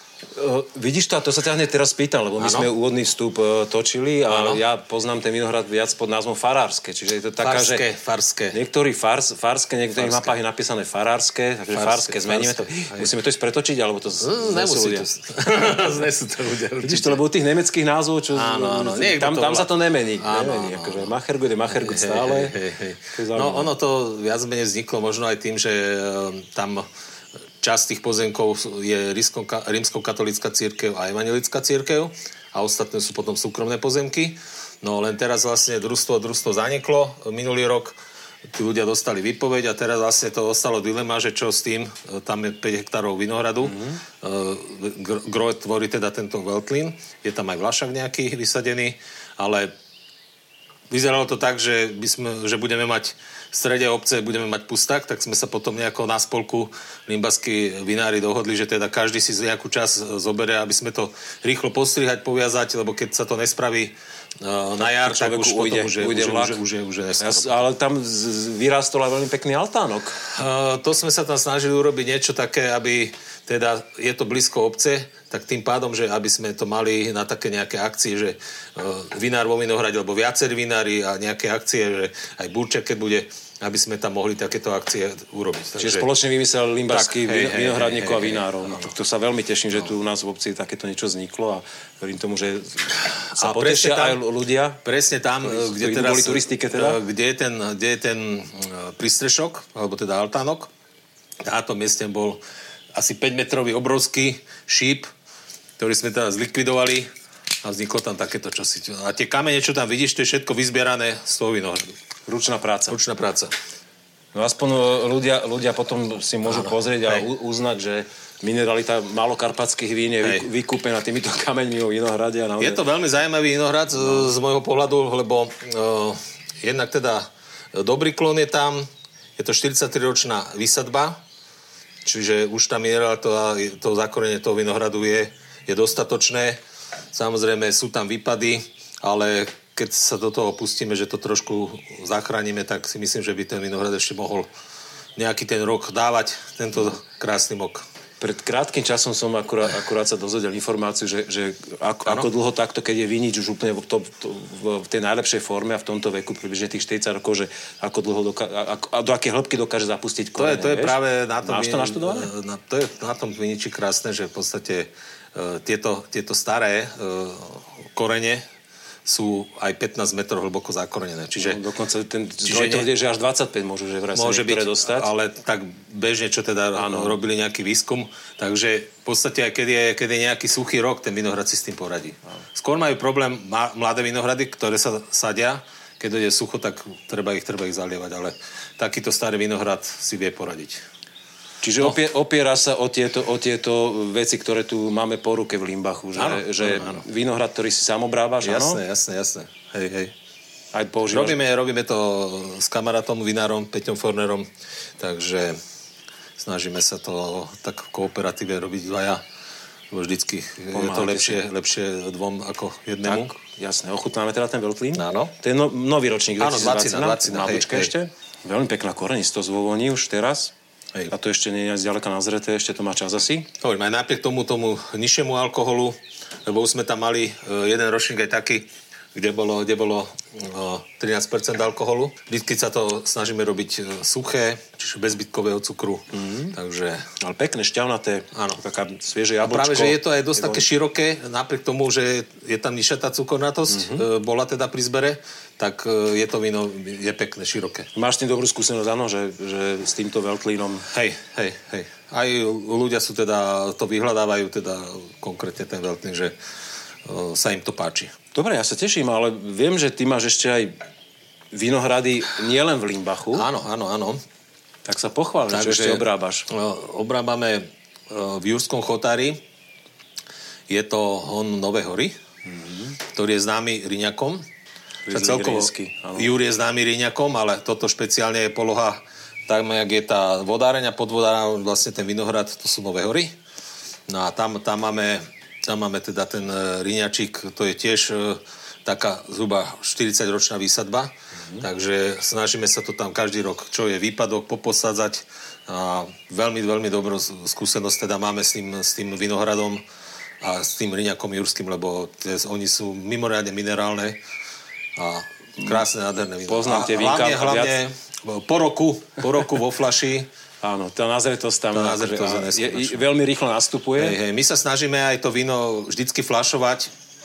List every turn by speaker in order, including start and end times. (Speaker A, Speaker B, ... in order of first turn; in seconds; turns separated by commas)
Speaker A: 0.3-7.8, Speaker B: 2.4-2.7, Speaker B: 4.3-4.6, Speaker B: 7.4-8.6, Speaker A: 8.5-15.1, Speaker B: 10.0-10.3, Speaker B: 11.7-13.1, Speaker B: 14.2-17.2, Speaker A: 16.8-22.5, Speaker B: 18.3-21.1, Speaker B: 21.7-26.9, Speaker A: 23.1-23.7, Speaker B: 27.6-38.0, Speaker B: 38.5-49.7, Speaker A: 43.6-44.0, Speaker B: 50.9-67.6, Speaker A: 64.8-66.6, Speaker A: 67.2-70.2, Speaker B: 70.2-86.1, Speaker A: 85.8-94.8, Speaker B: 86.9-88.9, Speaker B: 93.3-94.2, Speaker B: 94.8-100.7, Speaker A: 95.4-97.0, Speaker B: 101.4-102.4, Speaker B: 102.9-105.1, Speaker B: 105.8-107.1, Speaker B: 107.6-111.9, Speaker A: 112.3-113.0, Speaker B: 112.9-113.5, Speaker A: 114.3-122.8, Speaker B: 116.5-117.2, Speaker B: 122.6-131.2, Speaker B: 132.0-136.6, Speaker B: 137.1-144.5, Speaker B: 145.2-147.8, Speaker A: 148.2-162.3, Speaker B: 160.4-168.4, Speaker B: 169.1-171.6, Speaker A: 171.4-175.1, Speaker B: 172.4-172.9, Speaker B: 174.1-190.8, Speaker A: 176.7-177.2, Speaker A: 191.6-198.8, Speaker B: 196.2-197.0, Speaker B: 198.4-200.1, Speaker A: 200.7-201.4, Speaker B: 201.1-204.5, Speaker B: 205.0-205.6, Speaker B: 206.4-209.2, Speaker B: 209.9-213.3, Speaker A: 210.7-211.4, Speaker A: 213.0-220.5, Speaker B: 214.9-215.3, Speaker B: 216.4-217.9, Speaker A: 221.1-223.5, Speaker B: 223.6-237.1, Speaker A: 236.1-236.5, Speaker A: 237.2-240.6, Speaker B: 238.3-238.6, Speaker B: 239.4-247.9, Speaker A: 243.7-244.0, Speaker A: 247.9-250.9, Speaker B: 250.9-256.3, Speaker B: 257.0-258.1, Speaker A: 258.3-260.8, Speaker A: 261.5-263.4, Speaker B: 263.3-264.2, Speaker A: 264.9-266.5, Speaker B: 265.5-269.4, Speaker B: 270.7-272.1, Speaker A: 272.4-273.0, Speaker B: 273.1-274.4, Speaker A: 275.1-276.3, Speaker B: 275.1-283.3, Speaker B: 284.1-299.8, Speaker B: 300.4-304.2, Speaker B: 304.9-310.3, Speaker A: 306.5-307.8, Speaker A: 310.6-314.2, Speaker B: 311.7-313.1, Speaker B: 314.0-316.9